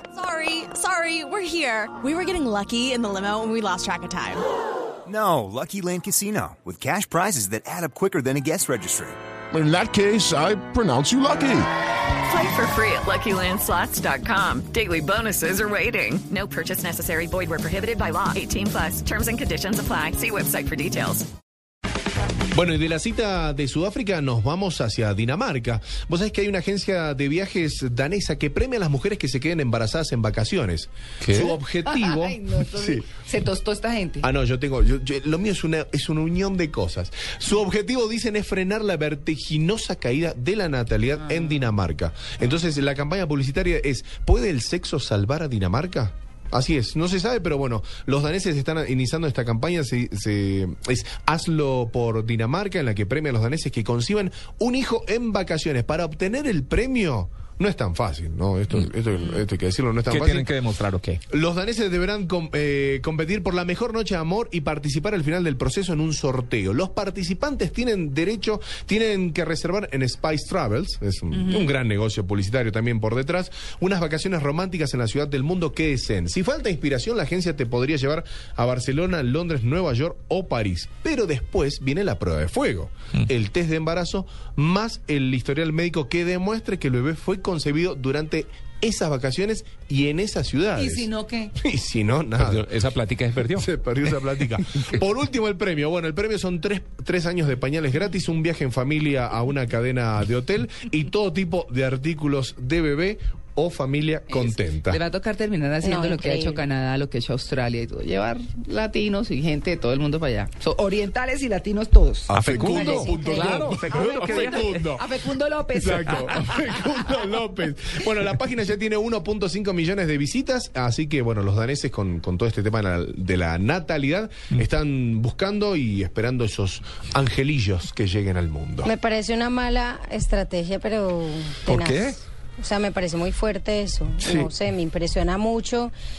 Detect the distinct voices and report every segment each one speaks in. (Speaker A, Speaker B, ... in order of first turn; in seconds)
Speaker A: 0.2-4.4
Speaker B: 5.1-9.2
Speaker C: 9.5-11.7
Speaker D: 12.2-21.3
Speaker E: 22.5-33.0, 34.2-60.5, 61.3-92.7, 93.5-105.0, 112.3-115.0, 115.8-128.9
Speaker F: 31.2-31.6, 60.1-61.2, 92.4-93.7, 112.3-114.5, 131.7-132.2, 134.2-134.5
Speaker G: 31.8-34.3, 71.4-71.7, 90.7-91.5, 104.3-116.8
Speaker H: 105.8-106.7, 128.8-135.9